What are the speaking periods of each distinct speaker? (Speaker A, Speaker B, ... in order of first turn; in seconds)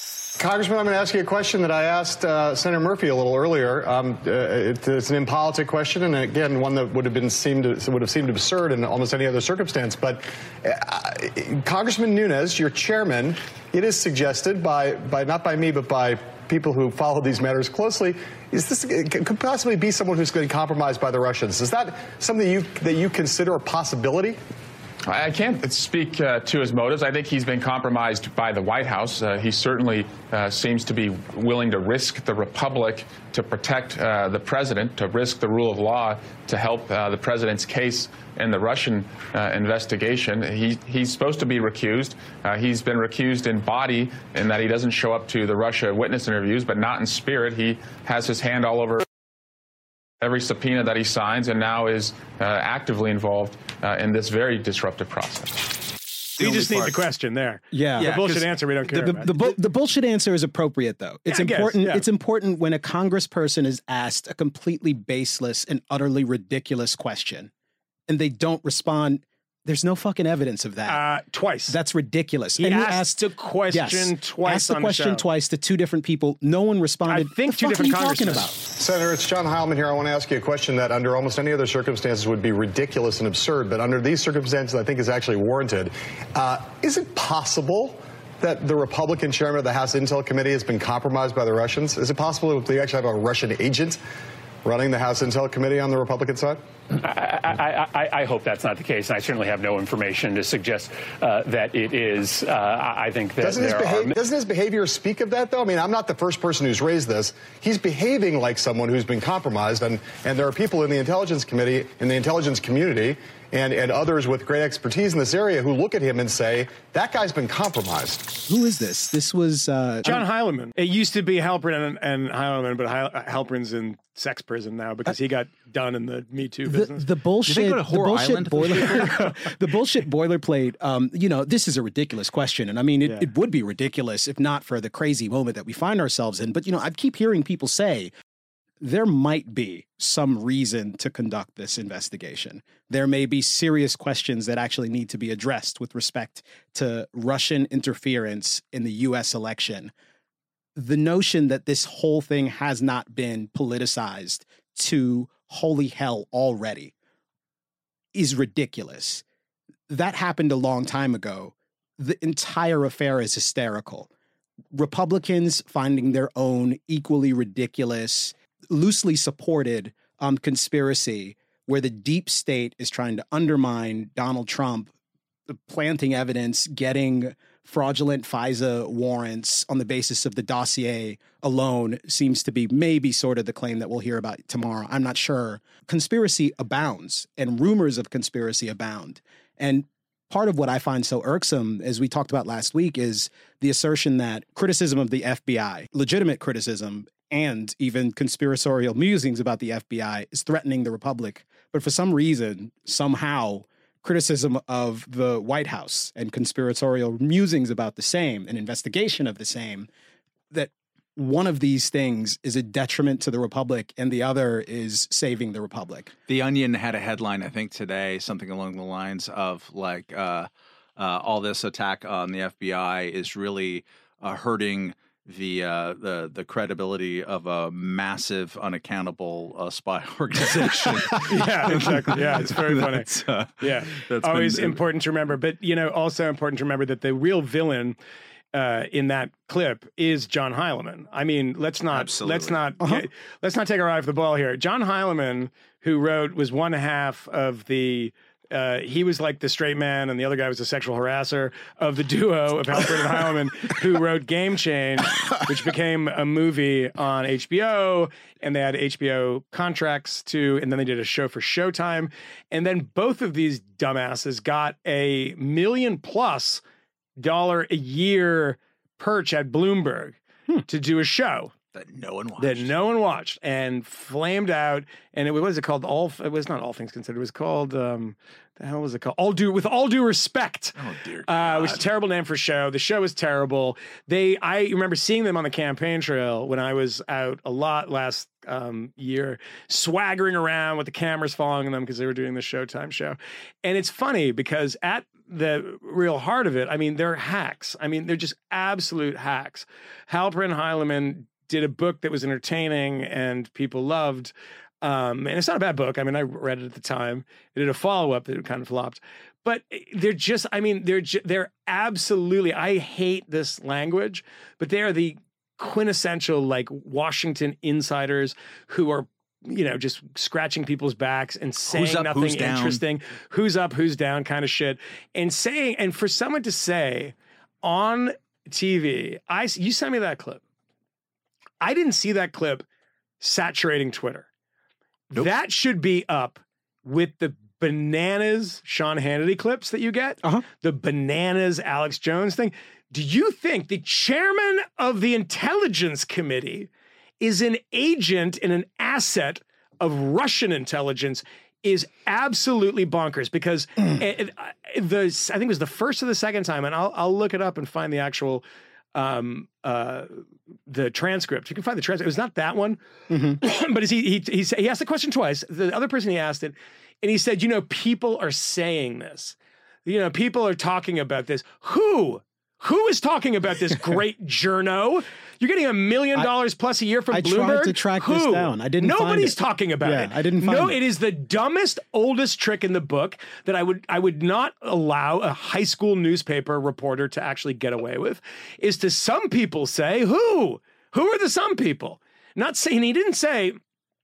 Speaker A: 0.4-24.4, 78.7-94.0, 94.6-96.6, 103.4-118.4
Speaker B: 25.1-49.0, 50.2-55.7
Speaker C: 56.4-57.0, 58.0-59.3, 127.5-129.3, 216.3-234.8, 241.9-242.6, 271.7-272.7, 280.8-281.8, 321.7-322.8
Speaker D: 56.4-59.3, 61.3-62.0, 70.9-71.8, 72.6-75.2, 77.1-78.5, 120.0-127.0, 231.2-238.0, 238.5-266.6, 267.2-271.5, 272.4-330.4, 331.6-332.6, 333.2-334.3, 335.1-346.7, 347.2-362.8, 363.3-393.6
Speaker E: 57.7-58.2, 59.0-67.5, 68.1-71.0, 71.7-78.6, 118.5-120.2, 126.7-138.1, 138.8-149.9, 150.8-156.9, 158.2-159.2, 159.9-164.1, 164.7-174.9, 175.5-209.9, 210.5-216.1, 363.1-363.4, 377.1-380.8
Speaker F: 96.9-104.2